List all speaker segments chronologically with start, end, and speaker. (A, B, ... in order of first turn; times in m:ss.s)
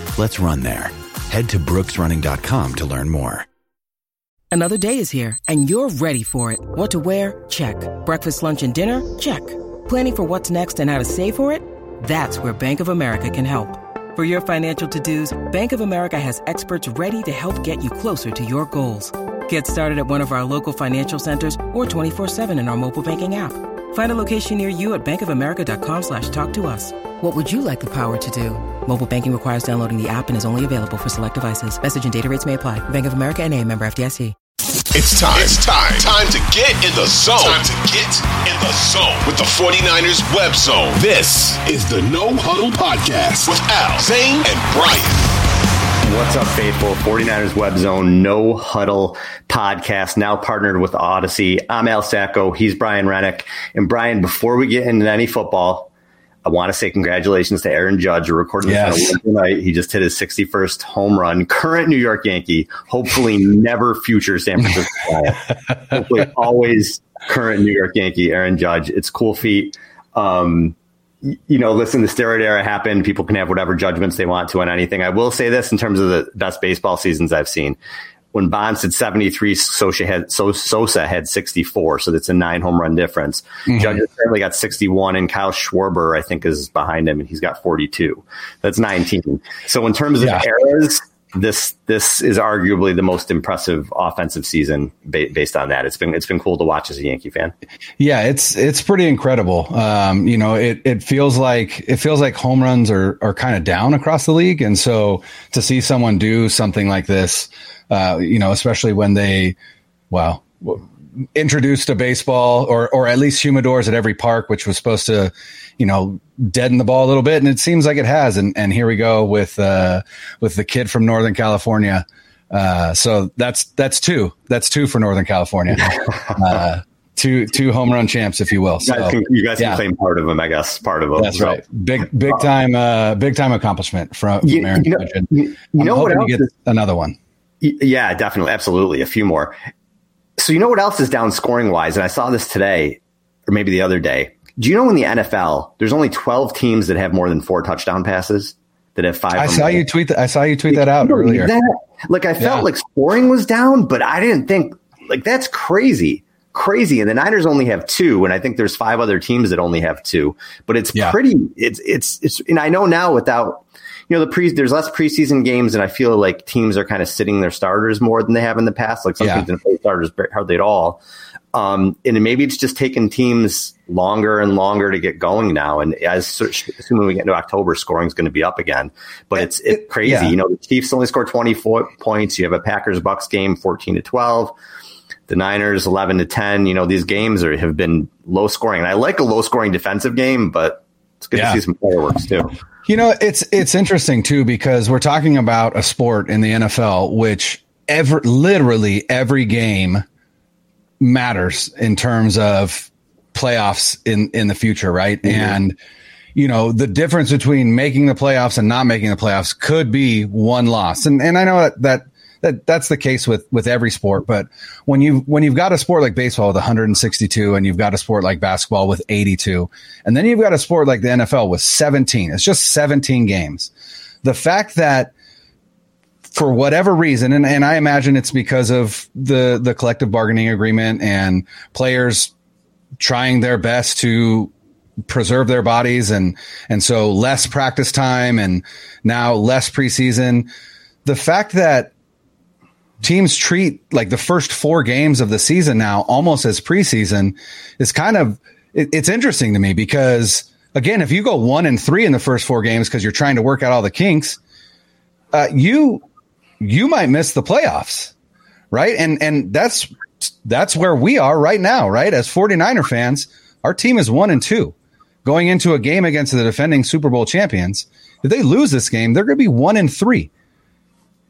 0:00.1-0:03.5 A
0:04.5-0:34.3 B
0:34.9-0:45.2 C
0:46.0-0:55.9 D
0:56.4-1:17.8 D
0:58.6-0:59.2 E
1:18.3-1:37.5 D
1:23.7-1:24.0 E
1:38.0-1:49.6 E
1:50.1-2:09.8 E
2:05.8-2:06.3 D
2:08.8-2:11.6 D
2:11.2-2:17.2 E
2:14.4-2:16.5 D
2:17.6-2:19.5 D
2:20.4-2:29.8 D
2:29.3-2:31.5 E
2:30.7-2:51.0 D
2:32.4-2:32.6 E
2:49.2-2:49.5 E
2:51.5-3:04.6 D
2:59.7-3:00.3 E
3:05.3-3:12.5 D
3:11.3-3:11.6 E
3:12.8-3:20.0 E
3:21.0-3:25.8 E
3:26.3-3:43.7 E
3:44.2-3:45.1 E
3:46.3-3:52.3 E
3:53.0-3:54.5 E
3:55.1-4:00.5 E
4:01.0-4:01.9 E
4:03.0-4:14.4 E
4:15.3-4:16.0 E
4:16.6-4:18.1 E
4:18.7-4:30.3 E